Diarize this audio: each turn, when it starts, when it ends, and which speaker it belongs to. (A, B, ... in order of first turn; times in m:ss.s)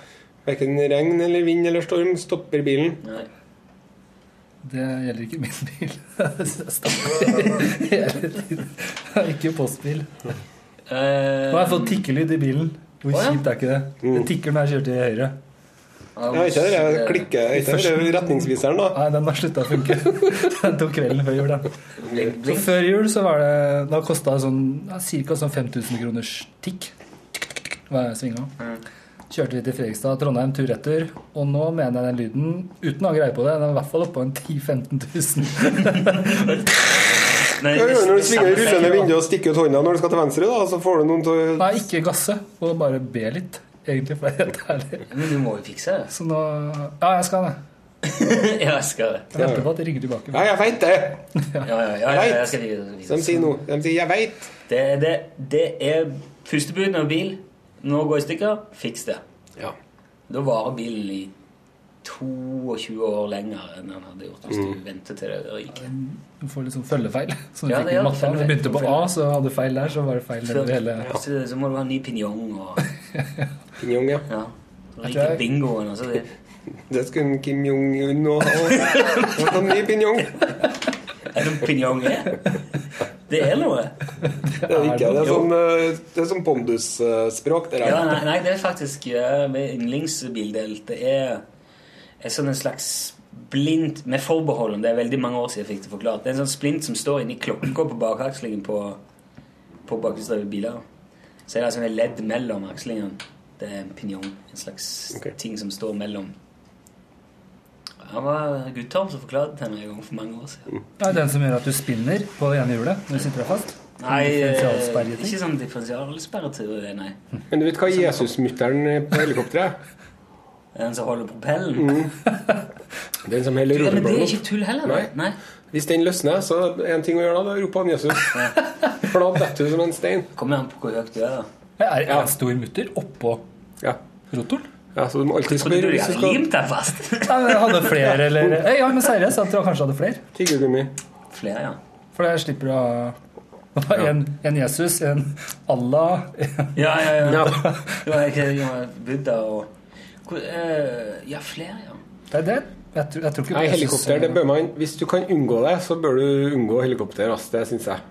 0:00.4-0:03.0 A
0:03.0-0:03.3 B
0:04.6-0:10.1 C
0:10.9-0:12.0 B
0:11.5-0:15.4 C
0:13.1-0:13.4 B
0:16.2-0:17.3 B
0:16.3-0:19.0 A
0:17.6-0:26.9 C
0:22.0-0:22.8 B
0:27.9-0:28.5 C
0:29.3-0:36.7 C
0:36.3-0:36.6 B
0:37.5-0:39.2 B
0:37.6-0:41.8 A
0:41.6-0:45.1 C
0:45.1-0:46.1 B
0:46.1-0:47.6 C
0:48.0-0:49.3 B
0:49.3-0:50.4 C
0:49.4-0:49.7 A
0:50.3-0:51.3 A
0:51.4-0:51.7 C
0:51.6-0:53.5 B
0:52.1-0:54.5 A
0:54.7-0:59.2 B
1:00.3-1:01.3 B
1:02.0-1:05.9 B
1:05.7-1:11.2 C
1:07.7-1:09.1 B
1:10.4-1:12.8 B
1:13.8-1:14.3 A
1:14.3-1:16.3 B
1:15.0-1:15.4 C
1:16.9-1:20.5 A
1:18.8-1:19.4 B
1:21.3-1:22.5 B
1:23.3-1:24.0 B
1:24.4-1:25.4 C
1:24.7-1:28.2 A
1:27.8-1:31.4 B
1:32.2-1:39.0 B
1:39.9-1:40.8 B
1:41.5-1:46.4 B
1:48.0-1:50.7 B
1:51.0-1:55.4 C
1:54.0-1:57.2 B
1:57.5-1:59.8 A
1:57.9-1:58.3 B
2:00.8-2:02.1 B
2:01.8-2:02.1 A
2:03.2-2:05.1 A
2:03.7-2:05.4 B
2:05.7-2:10.3 A
2:08.3-2:08.6 B
2:10.4-2:11.5 B
2:11.8-2:13.4 C
2:14.3-2:14.7 C
2:15.0-2:16.4 A
2:15.4-2:18.0 B
2:17.2-2:20.2 C
2:20.3-2:20.9 A
2:21.3-2:21.8 B
2:22.2-2:23.2 C
2:23.8-2:28.0 C
2:26.8-2:29.7 B
2:27.3-2:27.6 A
2:30.3-2:32.0 B
2:32.3-2:34.4 C
2:33.5-2:38.0 A